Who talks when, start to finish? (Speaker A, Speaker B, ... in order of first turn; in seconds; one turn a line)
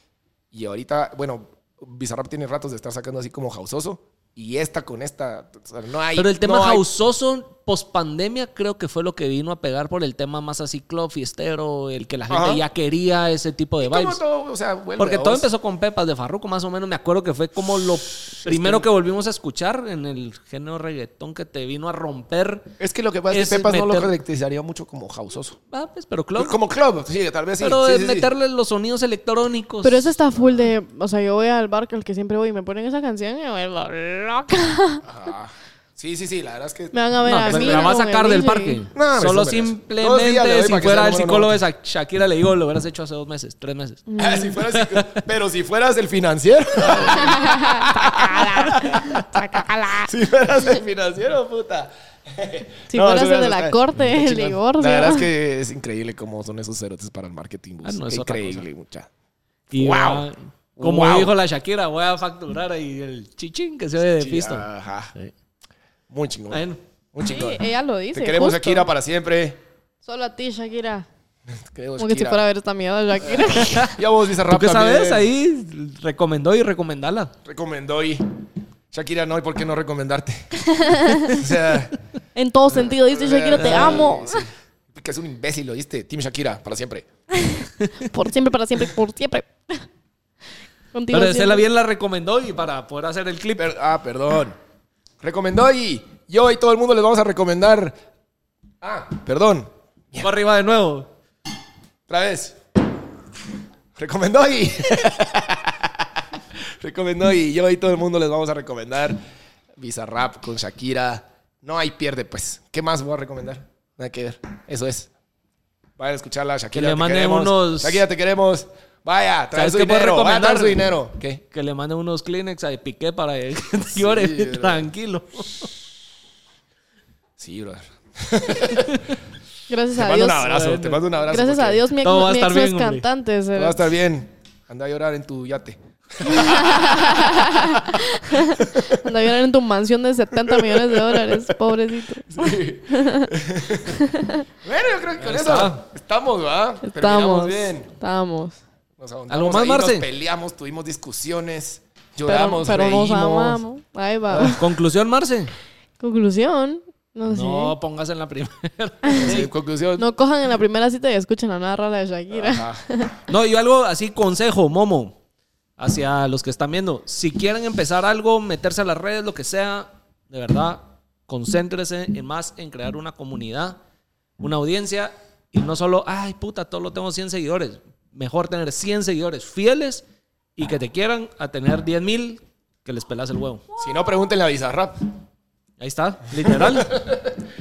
Speaker A: 0.5-6.8
Speaker B: 6.2-14.2
Speaker A: 12.3-12.7
Speaker A: 13.8-15.5
Speaker B: 15.0-22.7
Speaker A: 18.4-18.9
Speaker A: 22.8-25.6
Speaker B: 23.3-24.1
Speaker B: 25.7-26.6
Speaker A: 26.4-28.3
Speaker B: 27.6-30.1
Speaker C: 29.8-35.0
Speaker A: 35.0-37.9
Speaker C: 36.9-38.8
Speaker B: 37.3-44.1
Speaker A: 38.9-41.6
Speaker C: 44.1-44.6
Speaker A: 44.2-59.1
Speaker B: 44.7-45.2
Speaker C: 47.1-50.1
Speaker C: 52.9-55.3
Speaker B: 57.8-58.7
Speaker B: 59.7-65.3
Speaker A: 59.7-61.4
Speaker A: 64.2-65.1
Speaker A: 66.1-67.6
Speaker B: 66.5-66.8
Speaker C: 67.2-68.9
Speaker A: 68.1-69.6
Speaker C: 70.0-71.1
Speaker A: 71.7-72.4
Speaker C: 72.0-73.9
Speaker A: 73.2-75.3
Speaker B: 74.5-77.3
Speaker A: 77.5-78.3
Speaker A: 78.9-80.5
Speaker C: 80.6-81.4
Speaker A: 81.1-81.9
Speaker C: 82.3-84.5
Speaker A: 82.7-87.1
Speaker B: 83.5-84.1
Speaker C: 87.4-89.9
Speaker C: 90.9-91.7
Speaker B: 91.1-93.7
Speaker A: 93.6-94.6
Speaker A: 95.2-98.0
Speaker A: 98.8-100.3
Speaker B: 100.2-101.1
Speaker A: 102.1-102.6
Speaker A: 104.0-109.2
Speaker A: 109.8-115.1
Speaker A: 116.0-121.4
Speaker B: 116.7-118.0
Speaker B: 119.5-120.8
Speaker B: 121.5-125.7
Speaker A: 123.9-124.9
Speaker A: 127.4-129.2
Speaker C: 129.7-130.5
Speaker A: 129.9-131.8
Speaker B: 130.4-131.0
Speaker C: 131.3-133.9
Speaker B: 132.0-133.1
Speaker A: 133.6-139.1
Speaker C: 136.2-143.3
Speaker A: 140.5-141.4
Speaker A: 142.3-144.1
Speaker C: 143.9-144.4
Speaker A: 144.6-147.9
Speaker B: 145.2-145.8
Speaker C: 146.8-148.6
Speaker A: 149.0-153.6
Speaker B: 149.3-150.1
Speaker C: 152.2-154.6
Speaker A: 154.3-154.6
Speaker B: 154.4-155.5
Speaker C: 156.0-157.7
Speaker B: 157.3-159.5
Speaker A: 159.2-160.1
Speaker C: 160.0-163.1
Speaker A: 162.3-162.8
Speaker B: 163.3-165.2
Speaker B: 165.8-173.8
Speaker B: 174.4-180.0
Speaker B: 180.6-183.7
Speaker A: 183.8-184.9
Speaker B: 185.8-187.0
Speaker A: 186.4-187.2